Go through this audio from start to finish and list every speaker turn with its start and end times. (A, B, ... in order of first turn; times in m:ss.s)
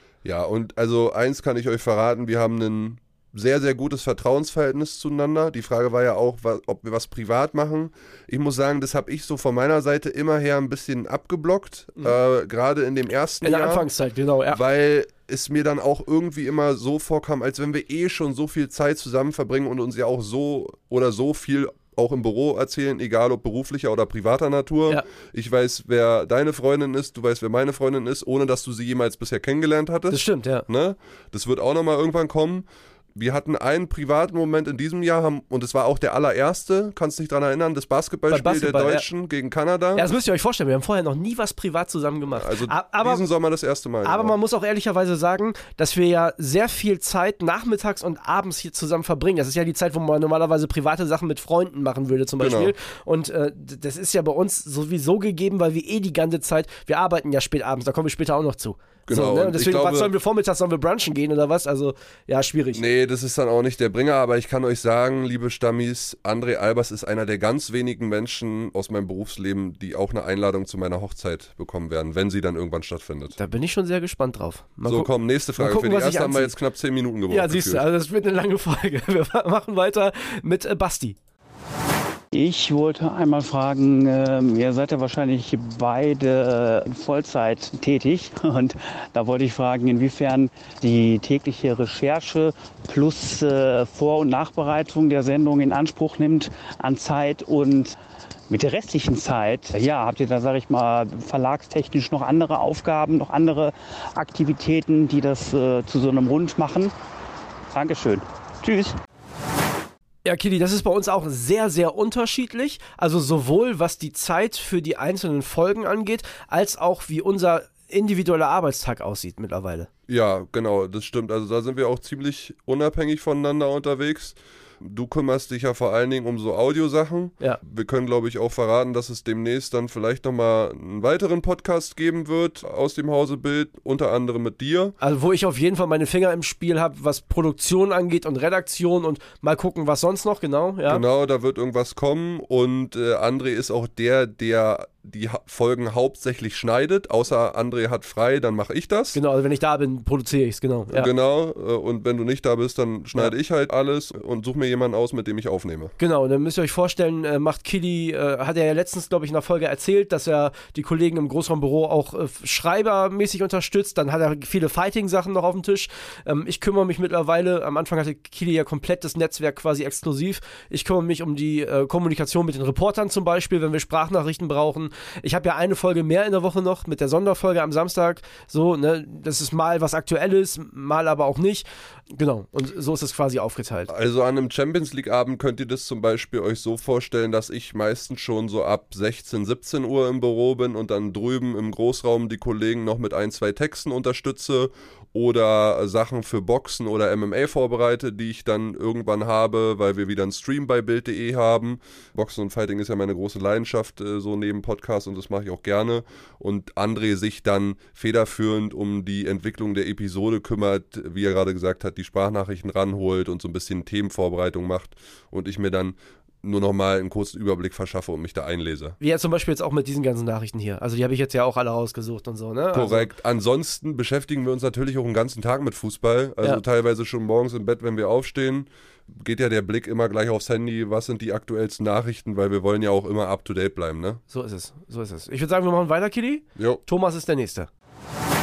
0:00.2-0:13.9 A
0:13.4-0:14.6 B
0:14.5-0:40.1 A
0:30.1-0:30.7 B
0:38.3-0:39.1 B
0:40.0-0:43.2 B
0:42.4-0:44.4 A
0:44.0-1:02.8 B
0:52.4-0:52.7 A
0:59.1-1:00.1 A
1:02.7-1:13.4 A
1:13.4-1:16.6 B
1:14.8-1:17.8 A
1:17.3-1:21.2 B
1:22.3-1:38.0 C
1:38.5-1:46.9 C
1:47.7-1:49.0 C
1:50.2-1:59.9 B
2:00.1-2:15.0 A
2:15.0-2:21.0 B
2:20.9-2:29.2 A
2:29.1-2:31.1 B
2:30.9-2:35.9 A
2:36.0-3:03.9 B
3:03.9-3:39.0 A
3:39.0-3:43.1 B
3:42.7-3:54.2 A
3:54.3-3:57.7 B